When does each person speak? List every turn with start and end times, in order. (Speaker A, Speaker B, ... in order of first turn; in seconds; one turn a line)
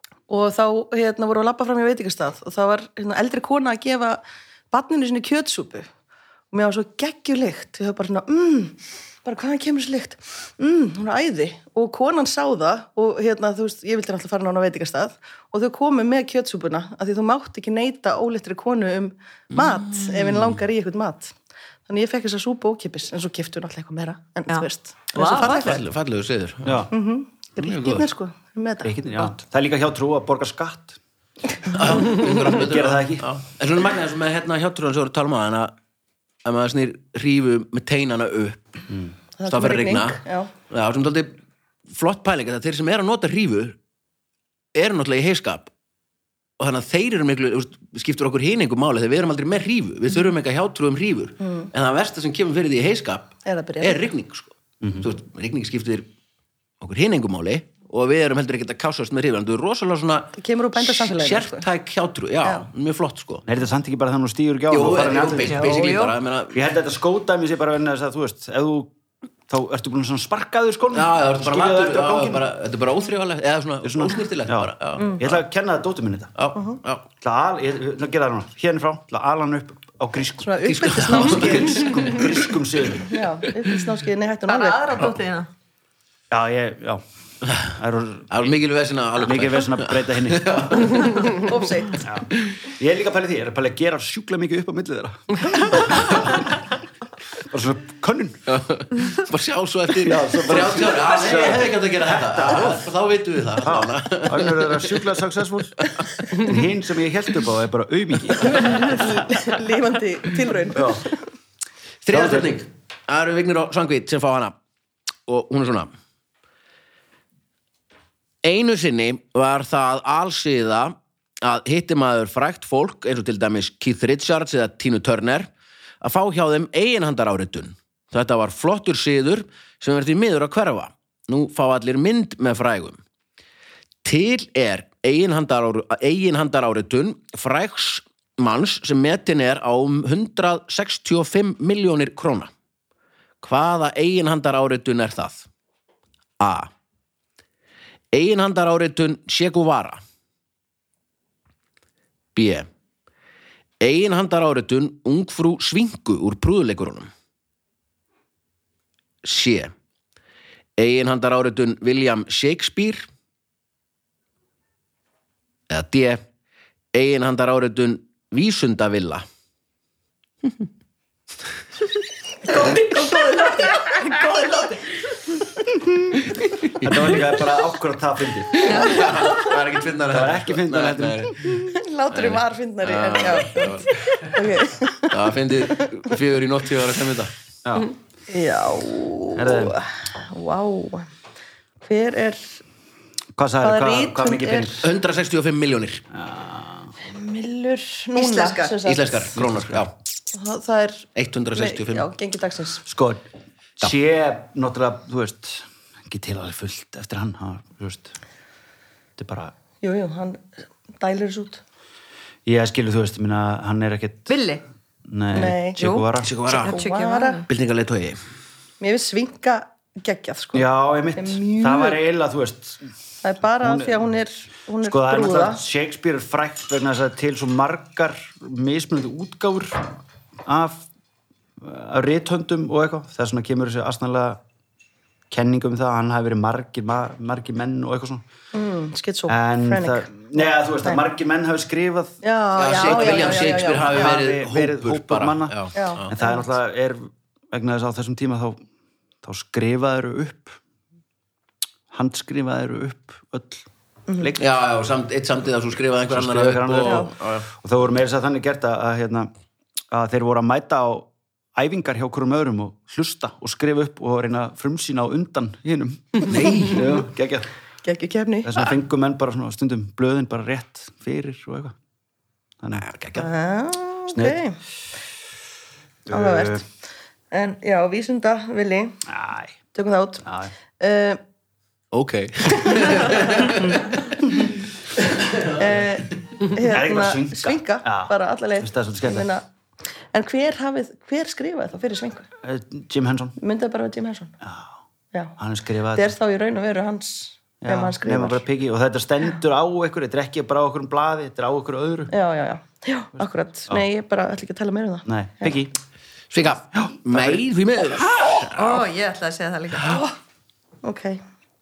Speaker A: 0.3-5.9
Speaker A: 6.5-21.3
Speaker B: 19.5-20.3
Speaker A: 21.9-25.8
Speaker C: 24.5-25.8
Speaker B: 25.1-26.9
Speaker D: 26.6-26.9
Speaker A: 26.9-29.3
Speaker B: 27.6-28.1
Speaker D: 28.8-31.0
Speaker B: 31.7-35.7
Speaker D: 32.0-33.3
Speaker B: 36.4-38.6
Speaker A: 39.4-40.5
Speaker B: 39.5-41.4
Speaker B: 41.9-43.8
Speaker B: 44.7-45.7
Speaker B: 46.6-56.1
Speaker A: 51.4-51.7
Speaker A: 53.4-54.1
Speaker D: 54.8-55.1
Speaker B: 56.8-63.4
Speaker A: 60.4-61.6
Speaker A: 62.4-62.7
Speaker D: 63.5-65.7
Speaker B: 64.7-66.6
Speaker C: 65.5-66.2
Speaker D: 66.5-68.9
Speaker D: 69.5-72.5
Speaker B: 70.9-75.3
Speaker D: 73.8-76.3
Speaker B: 76.3-77.1
Speaker D: 77.2-83.2
Speaker A: 80.4-82.2
Speaker B: 80.6-82.2
Speaker A: 83.1-85.0
Speaker C: 84.5-85.5
Speaker D: 86.3-87.0
Speaker D: 87.7-88.5
Speaker B: 88.3-91.4
Speaker D: 89.2-91.1
Speaker A: 91.3-92.1
Speaker D: 92.0-96.6
Speaker B: 96.0-96.4
Speaker D: 97.4-98.4
Speaker B: 98.5-105.0
Speaker D: 100.0-102.8
Speaker D: 103.6-109.2
Speaker A: 108.8-111.2
Speaker D: 110.7-111.1
Speaker B: 112.0-114.5
Speaker D: 112.1-112.6
Speaker B: 115.2-115.9
Speaker B: 118.4-125.5
Speaker B: 126.0-133.0
Speaker B: 134.0-142.5
Speaker B: 143.4-145.5
Speaker B: 146.4-146.7
Speaker B: 148.1-150.0
Speaker B: 152.3-152.7
Speaker B: 153.8-157.1
Speaker B: 159.2-159.7
Speaker B: 160.8-163.1
Speaker B: 165.7-166.2
Speaker B: 166.9-169.2
Speaker C: 172.5-174.8
Speaker B: 176.5-177.3
Speaker D: 176.8-178.9
Speaker B: 178.5-181.6
Speaker D: 180.1-181.6
Speaker A: 181.5-185.9
Speaker B: 182.1-184.3
Speaker B: 185.1-187.3
Speaker D: 187.6-187.9
Speaker A: 188.3-191.1
Speaker D: 189.3-189.8
Speaker A: 191.8-192.6
Speaker D: 193.3-194.9
Speaker A: 193.6-194.8
Speaker B: 194.8-196.0
Speaker D: 196.1-196.9
Speaker A: 197.1-199.3
Speaker C: 198.1-198.8
Speaker B: 198.8-199.9
Speaker D: 199.3-199.8
Speaker A: 200.3-202.8
Speaker B: 201.1-202.1
Speaker D: 202.8-203.2
Speaker D: 203.8-208.1
Speaker D: 209.2-209.5
Speaker A: 209.8-211.6
Speaker D: 212.4-214.3
Speaker C: 214.3-214.6
Speaker D: 215.1-216.3
Speaker A: 215.3-215.8
Speaker C: 215.8-217.5
Speaker B: 216.2-216.8
Speaker A: 216.6-217.4
Speaker B: 217.5-218.2
Speaker A: 218.8-222.0
Speaker D: 220.5-222.8
Speaker A: 223.2-225.6
Speaker D: 223.6-224.2
Speaker D: 224.8-230.9
Speaker D: 231.6-234.4
Speaker D: 235.3-238.2
Speaker A: 238.5-241.0
Speaker D: 239.3-248.6
Speaker A: 242.2-244.2
Speaker B: 242.6-246.1
Speaker A: 245.7-246.4
Speaker D: 249.2-250.6
Speaker D: 251.9-254.4
Speaker A: 254.1-254.3
Speaker B: 254.4-257.4
Speaker D: 256.1-259.3
Speaker A: 256.8-257.1
Speaker D: 259.9-267.5
Speaker B: 266.3-267.0
Speaker A: 267.8-268.7
Speaker D: 268.4-271.7
Speaker D: 272.6-272.9
Speaker B: 272.8-273.2
Speaker A: 273.1-274.5
Speaker D: 274.1-274.4
Speaker D: 276.1-276.6
Speaker A: 276.1-276.7
Speaker A: 277.3-279.0
Speaker D: 279.1-279.6
Speaker A: 279.7-280.2
Speaker D: 280.2-280.5
Speaker A: 280.8-281.2
Speaker B: 281.9-284.2
Speaker A: 282.7-283.8
Speaker B: 285.1-285.6
Speaker A: 285.6-289.4
Speaker D: 286.7-289.3
Speaker A: 290.1-292.3
Speaker D: 292.4-293.4
Speaker A: 293.4-294.3
Speaker D: 294.4-294.8
Speaker D: 295.4-296.1
Speaker A: 295.9-298.4
Speaker D: 297.6-302.1
Speaker A: 302.1-305.6
Speaker D: 303.2-303.9
Speaker D: 305.1-305.7
Speaker B: 306.3-308.8
Speaker D: 306.7-307.4
Speaker C: 308.5-310.0
Speaker A: 310.8-311.2